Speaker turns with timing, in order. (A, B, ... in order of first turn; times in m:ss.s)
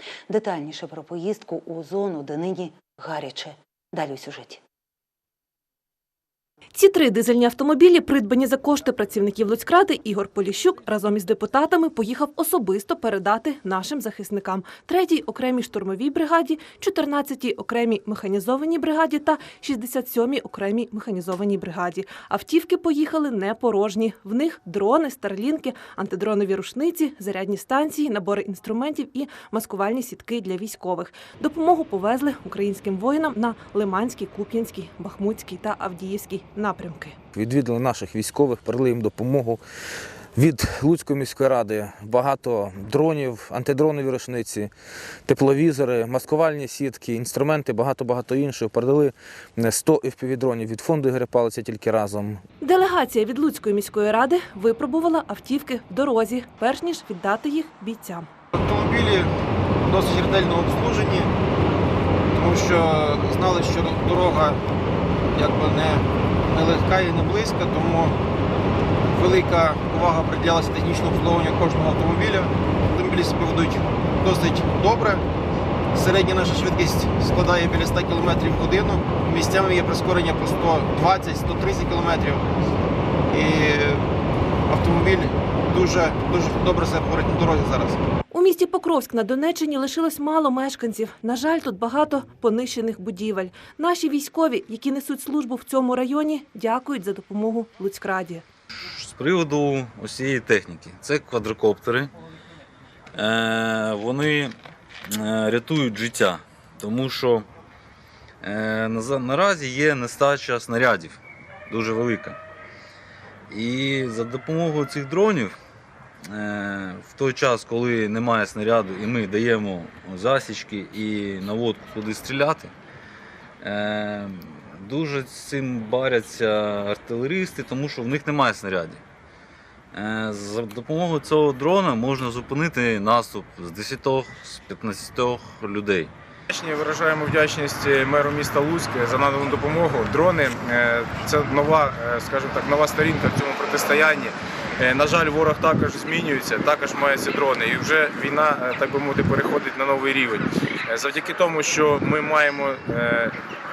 0:00.3-0:04.6 A
0:06.7-0:37.2 B
0:37.3-0:39.6 C
0:40.3-0:44.7 C
0:45.2-0:52.4 C
0:52.6-0:58.3 B
0:58.5-0:59.3 D
0:59.8-1:01.3 D
1:02.3-1:04.6 D
1:05.3-1:08.2 D
1:09.1-1:15.2 D
1:15.9-1:22.5 D
1:23.3-1:24.0 D
1:24.7-1:28.0 D
1:28.3-1:38.4 B
1:38.9-1:42.1 E
1:43.1-1:44.5 E
1:45.1-1:47.4 E
1:48.4-1:52.4 E
1:53.5-1:55.5 E
1:56.3-2:02.7 E
2:03.6-2:09.0 E
2:09.9-2:16.1 E
2:16.5-2:33.3 F